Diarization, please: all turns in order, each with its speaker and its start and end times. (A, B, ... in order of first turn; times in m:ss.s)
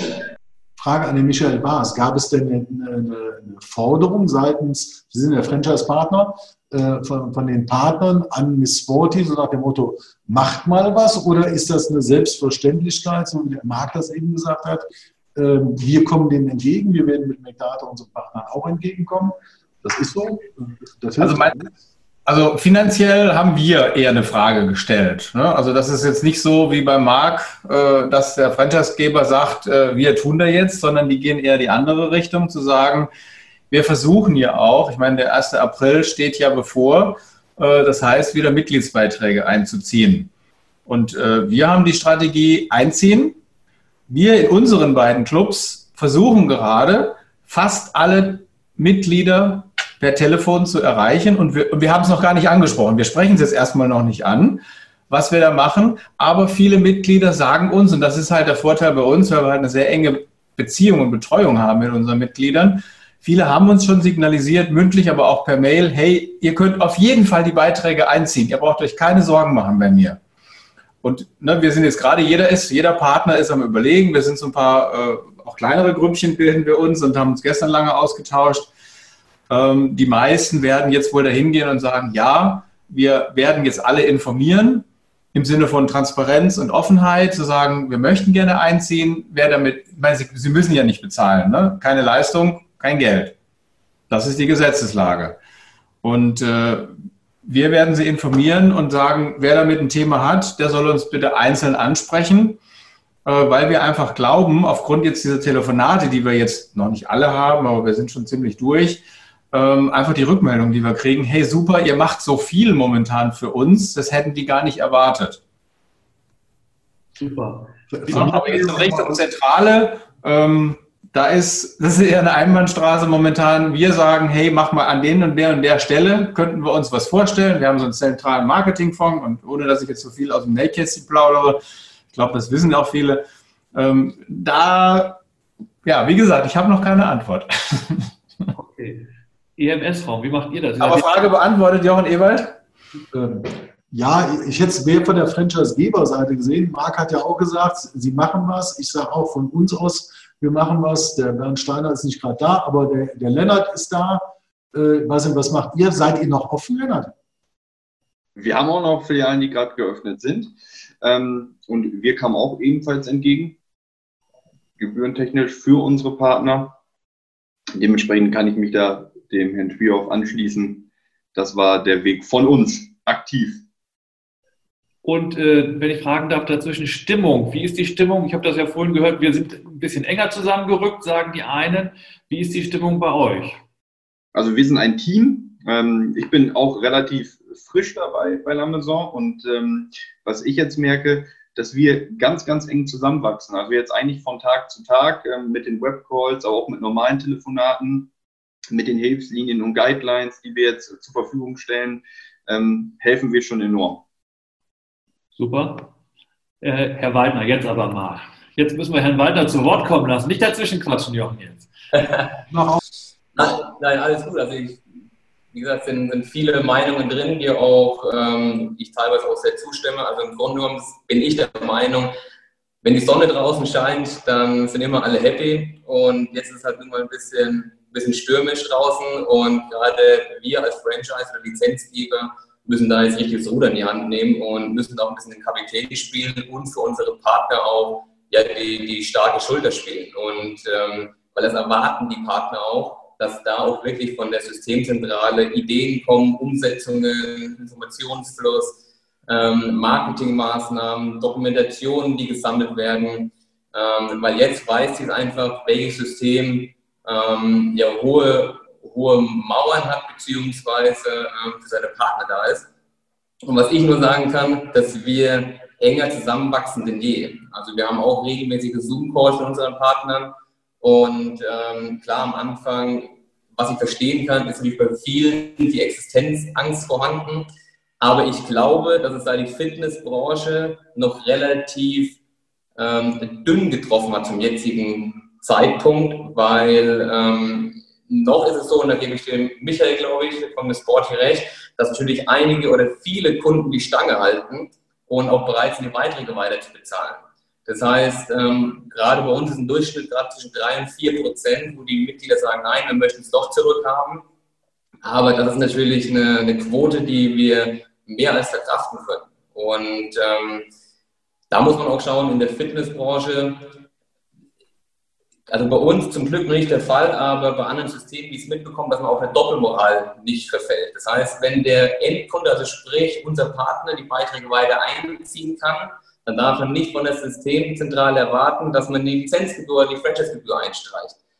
0:00.8-0:21.7 A
0:21.2-0:21.6 B
0:22.2-0:33.1 B
0:33.7-0:40.3 B
0:40.8-0:43.4 B
0:44.1-1:10.2 B
1:11.0-1:18.7 B
1:19.5-1:33.3 B
1:34.1-1:35.4 B
1:36.0-1:36.9 B
1:37.4-1:42.6 B
1:43.2-1:55.4 B
1:57.2-1:59.1 C
1:57.9-1:59.2 A
1:58.1-2:11.6 B
2:12.1-2:15.2 B
2:15.8-2:18.1 B
2:18.6-2:21.3 C
2:20.8-2:22.6 B
2:23.1-2:37.1 A
2:38.4-2:43.6 D
2:44.8-2:46.8 D
2:47.8-2:53.6 D
2:55.0-3:03.6 C
3:04.3-3:18.1 D
3:18.7-3:24.0 D
3:25.3-3:25.9 C
3:26.6-3:31.7 C
3:32.5-3:32.8 A
3:33.4-3:34.8 E
3:35.5-3:42.1 E
3:42.8-4:08.8 E
4:09.3-4:22.7 E
4:23.5-4:37.5 E
4:38.0-4:42.2 E
4:42.8-5:04.2 E
5:05.0-5:10.6 E
5:11.5-5:13.6 E
5:15.5-5:31.2 E